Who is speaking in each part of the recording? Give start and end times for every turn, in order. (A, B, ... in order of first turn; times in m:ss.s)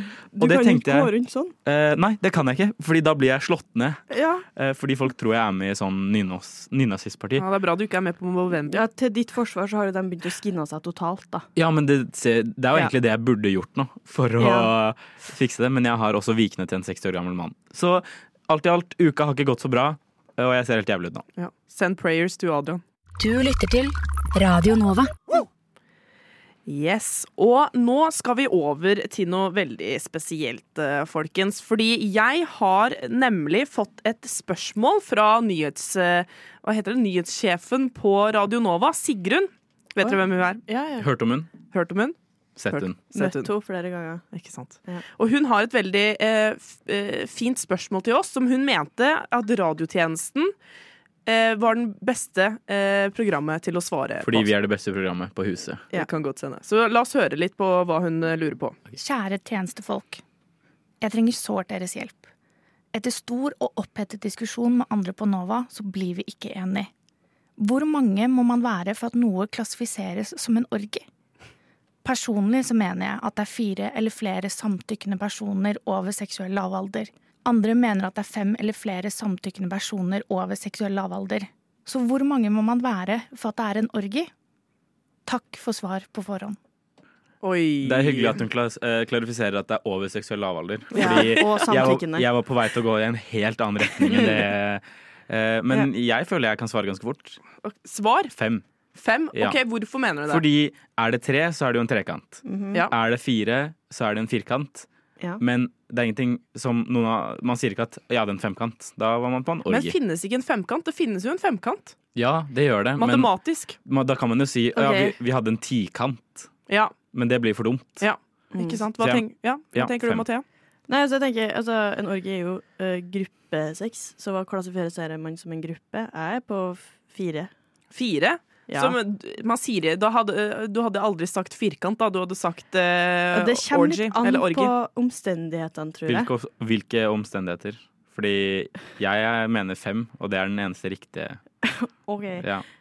0:00.3-0:01.5 A
0:00.4-0:01.1 B
0:01.6-0:04.0 B
0:04.1-0:04.4 A
0:04.6-0:07.4 B
0:07.4-0:08.8 C
0:08.7-0:11.4 A
0:11.6-0:21.2 B
0:14.4-0:14.7 A
0:21.4-0:22.8 C
0:23.2-0:25.1 D
0:26.6-0:41.0 C
0:41.0-0:41.5 B
0:41.6-0:42.2 C
0:42.6-0:43.0 B
0:42.7-0:43.5 C
0:43.1-0:44.2 A
0:44.3-0:50.5 C
0:51.2-0:54.5 C
0:54.2-0:55.8 B
0:55.9-0:58.8 C
0:59.0-1:00.2 E
1:01.0-1:02.2 E
1:02.9-1:06.9 E
1:07.6-1:11.0 E
1:12.0-1:24.3 E
1:25.2-1:26.6 E
1:27.4-1:28.4 C
1:27.8-1:37.4 B
1:30.9-1:32.3 A
1:30.9-1:31.6 C
1:37.6-1:38.3 C
1:38.3-1:38.6 B
1:38.9-1:40.4 C
1:40.3-1:44.9 B
1:42.4-1:42.8 A
1:45.4-1:49.9 B
1:49.7-1:51.9 C
1:52.1-1:56.5 B
1:53.0-1:53.8 C
1:54.7-1:55.2 A
1:56.7-1:56.9 C
1:57.1-1:58.0 B
1:58.0-2:00.4 C
1:58.5-1:58.8 A
1:59.0-2:00.2 B
2:00.9-2:07.5 A
2:07.9-2:14.7 C
2:08.7-2:09.0 A
2:13.3-2:16.3 A
2:16.1-2:21.4 B
2:21.6-2:22.5 A
2:22.4-2:22.6 B